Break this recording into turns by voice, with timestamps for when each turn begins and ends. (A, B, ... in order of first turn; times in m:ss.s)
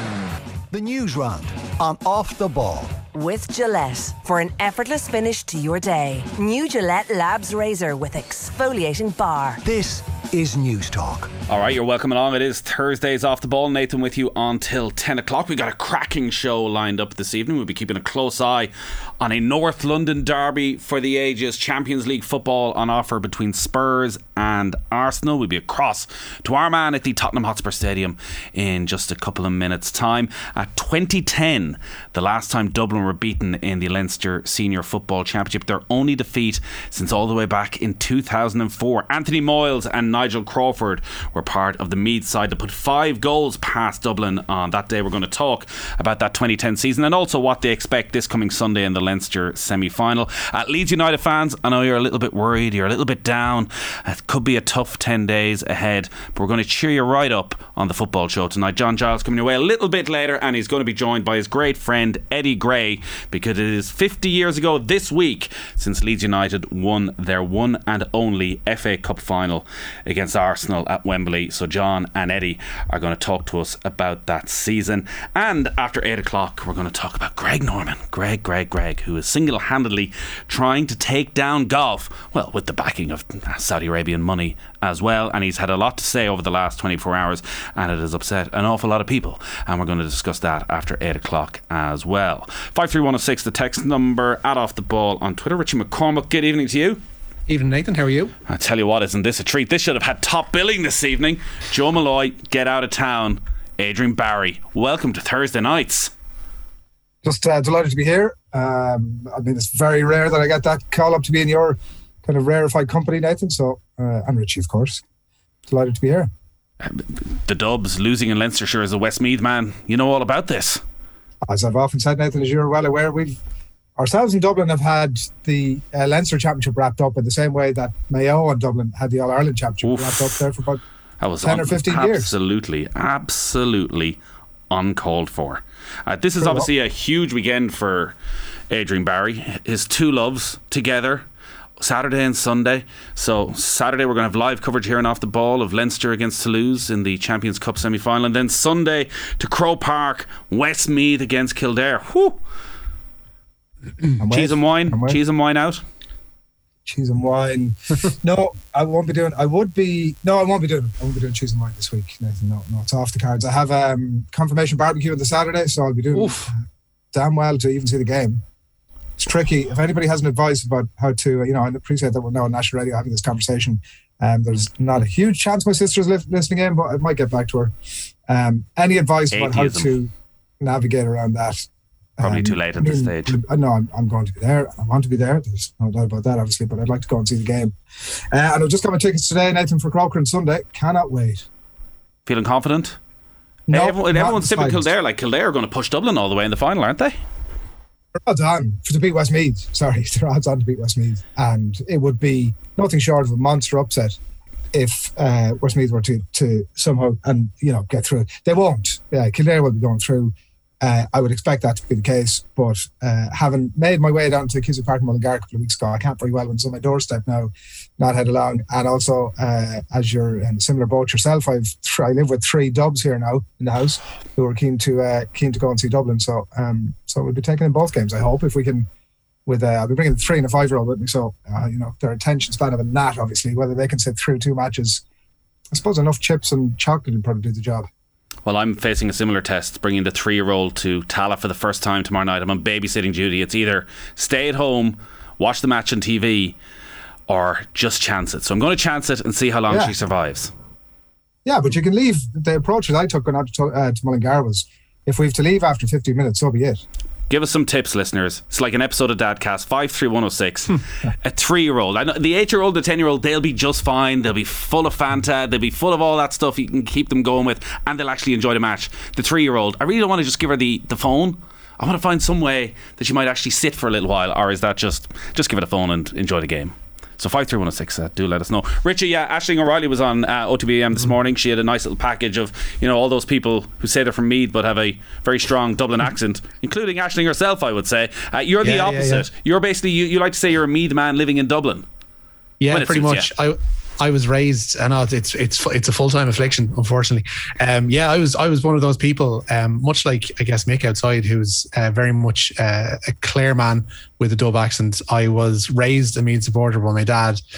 0:00.7-0:03.0 A
0:03.1-0:09.6 B
0:09.6-0:11.3 A
0:11.5-1:37.0 C
1:37.5-1:38.3 D
1:38.5-1:46.1 C
1:47.2-1:55.0 E
1:55.7-1:56.3 E
1:56.8-2:00.8 C
2:01.4-2:03.4 E
2:04.0-2:10.8 E
2:09.8-2:10.4 C
2:11.2-2:14.2 C
2:11.4-2:12.3 E
2:14.7-2:18.1 C
2:16.4-2:16.7 E
2:18.7-2:21.2 C
2:21.8-2:32.4 C
2:34.2-2:35.2 E
2:34.3-2:35.8 C
2:36.8-2:48.4 E
2:46.1-2:46.5 C
2:49.2-2:57.7 E
2:58.3-3:01.7 E
2:59.3-2:59.9 C
3:02.2-3:07.8 E
3:02.2-3:03.4 C
3:08.3-3:11.4 E
3:12.3-3:13.0 C
3:13.7-3:14.9 E
3:13.7-3:17.2 C
3:18.2-3:24.2 E
3:24.7-3:48.9 E
3:49.4-3:55.0 E
3:55.7-3:57.9 E
3:58.4-4:06.6 C
4:07.3-4:10.5 C
4:09.7-4:09.9 E
4:11.4-4:16.8 E
4:17.3-4:51.8 C
4:48.6-4:49.2 D
4:52.6-5:07.4 D
4:52.7-4:53.3 C